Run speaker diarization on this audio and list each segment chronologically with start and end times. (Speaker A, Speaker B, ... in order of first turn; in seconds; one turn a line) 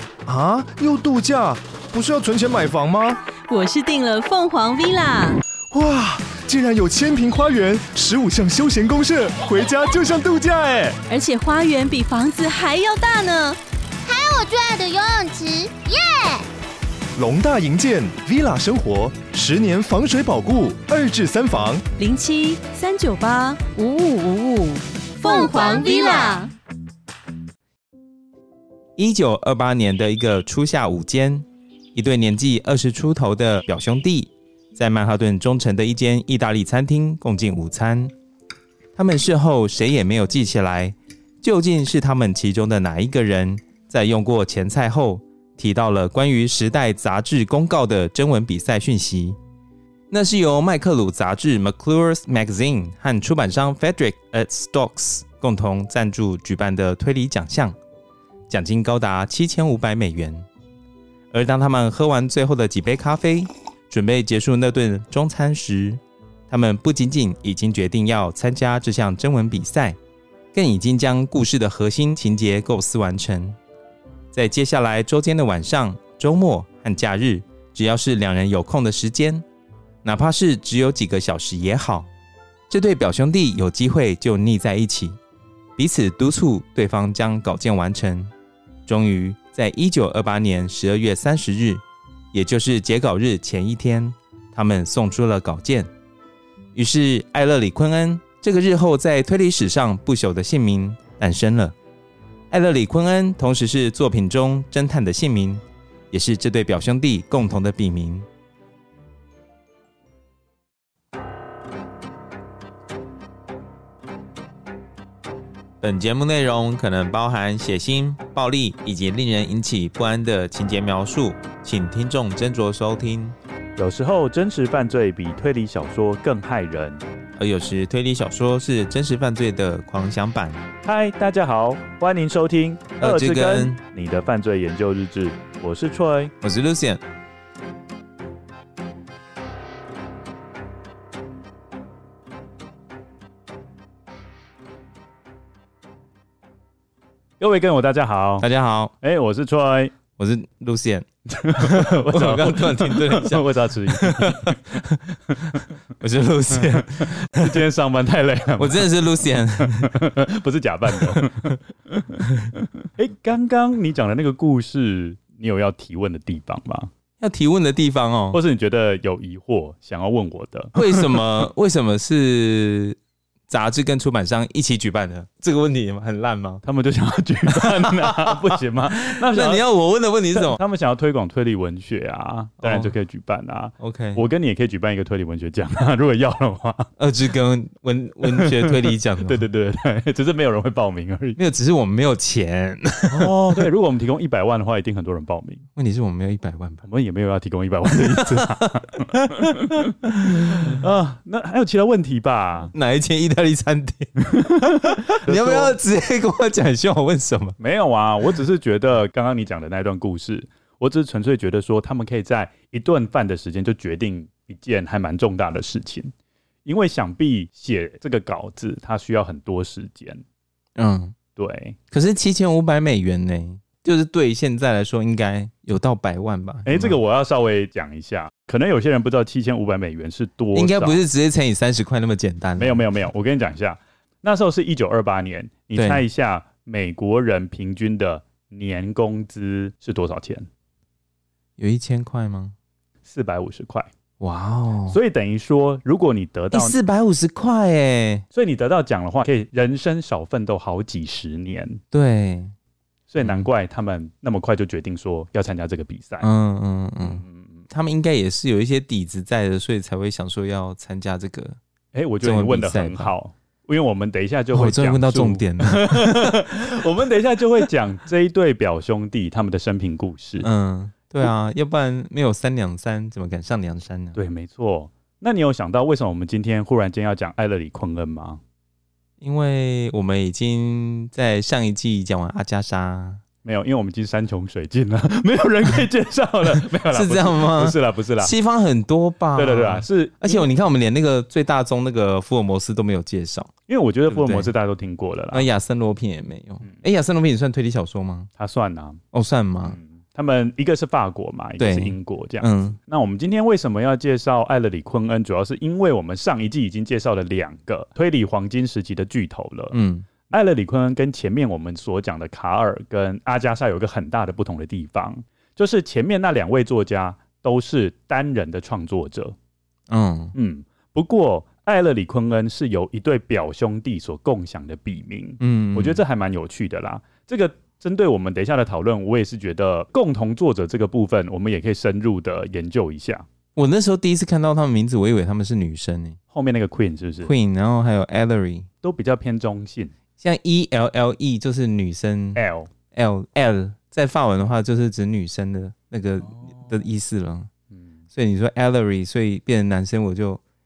Speaker A: 0.3-3.2
Speaker B: 3.5-5.4
Speaker A: 5.7-11.0
Speaker B: 11.1-13.6
Speaker C: 14.1-16.5
Speaker A: 17.2-21.8
Speaker B: 22.0-26.5
Speaker C: 25.2-26.5
Speaker D: 29.0-38.1
Speaker D: 39.0-49.4
Speaker D: 50.1-57.8
Speaker D: 58.5-60.5
Speaker D: 61.3-70.0
Speaker D: 70.5-73.6
Speaker D: 74.3-79.4
Speaker D: 80.0-82.1
Speaker D: 82.7-85.2
Speaker D: 85.8-88.3
Speaker D: 88.9-95.9
Speaker D: 96.7-101.8
Speaker D: 102.5-108.3
Speaker D: 115.8-123.4
Speaker E: 123.8-127.0
Speaker D: 127.4-130.6
Speaker E: 130.8-136.3
Speaker D: 133.0-133.8
Speaker D: 136.4-137.0
Speaker E: 147.4-148.5
Speaker D: 148.4-148.9
Speaker E: 149.0-149.9
Speaker D: 150.2-151.1
Speaker E: 151.3-154.6
Speaker D: 151.6-154.9
Speaker D: 155.5-157.6
Speaker E: 156.6-162.2
Speaker D: 158.6-159.9
Speaker D: 160.9-161.3
Speaker E: 163.0-166.9
Speaker D: 167.2-168.4
Speaker E: 168.3-171.2
Speaker D: 170.8-176.6
Speaker E: 176.6-179.7
Speaker D: 177.5-178.4
Speaker D: 179.0-180.6
Speaker E: 180.3-186.9
Speaker D: 182.6-182.9
Speaker D: 183.8-184.2
Speaker D: 187.0-189.5
Speaker E: 188.2-191.4
Speaker D: 191.4-193.6
Speaker E: 193.1-195.6
Speaker D: 195.8-196.8
Speaker E: 196.8-202.7
Speaker D: 197.8-200.8
Speaker D: 202.7-207.6
Speaker E: 204.3-205.8
Speaker E: 207.6-216.1
Speaker E: 216.7-220.2
Speaker D: 220.8-221.2
Speaker E: 221.4-221.8
Speaker D: 221.9-227.0
Speaker E: 226.7-231.0
Speaker D: 230.5-232.8
Speaker E: 232.6-240.5
Speaker D: 235.8-236.1
Speaker D: 241.6-242.5
Speaker E: 243.1-243.9
Speaker D: 244.2-245.0
Speaker E: 244.9-246.8
Speaker D: 246.5-248.2
Speaker E: 248.3-251.8
Speaker D: 251.9-252.5
Speaker E: 253.1-256.3
Speaker D: 253.2-253.5
Speaker D: 256.2-261.6
Speaker E: 257.1-257.6
Speaker E: 261.9-270.5
Speaker D: 262.2-263.1
Speaker D: 264.5-266.4
Speaker D: 270.4-274.2
Speaker E: 274.1-278.4
Speaker D: 279.2-283.2
Speaker E: 283.4-288.3
Speaker D: 286.7-293.5
Speaker E: 289.4-290.5
Speaker E: 293.7-295.5
Speaker D: 294.1-294.5
Speaker D: 295.3-298.3
Speaker E: 298.4-299.0
Speaker D: 299.1-299.8
Speaker E: 299.7-319.4
Speaker D: 301.6-302.8
Speaker D: 309.7-310.1
Speaker D: 319.9-320.3
Speaker E: 320.3-333.3
Speaker D: 325.4-326.0
Speaker D: 333.6-336.2
Speaker E: 336.3-337.3
Speaker D: 337.2-338.7
Speaker E: 338.8-339.9
Speaker D: 340.2-342.4
Speaker E: 342.4-342.7
Speaker D: 342.9-347.5
Speaker E: 346.4-346.7
Speaker D: 348.1-350.4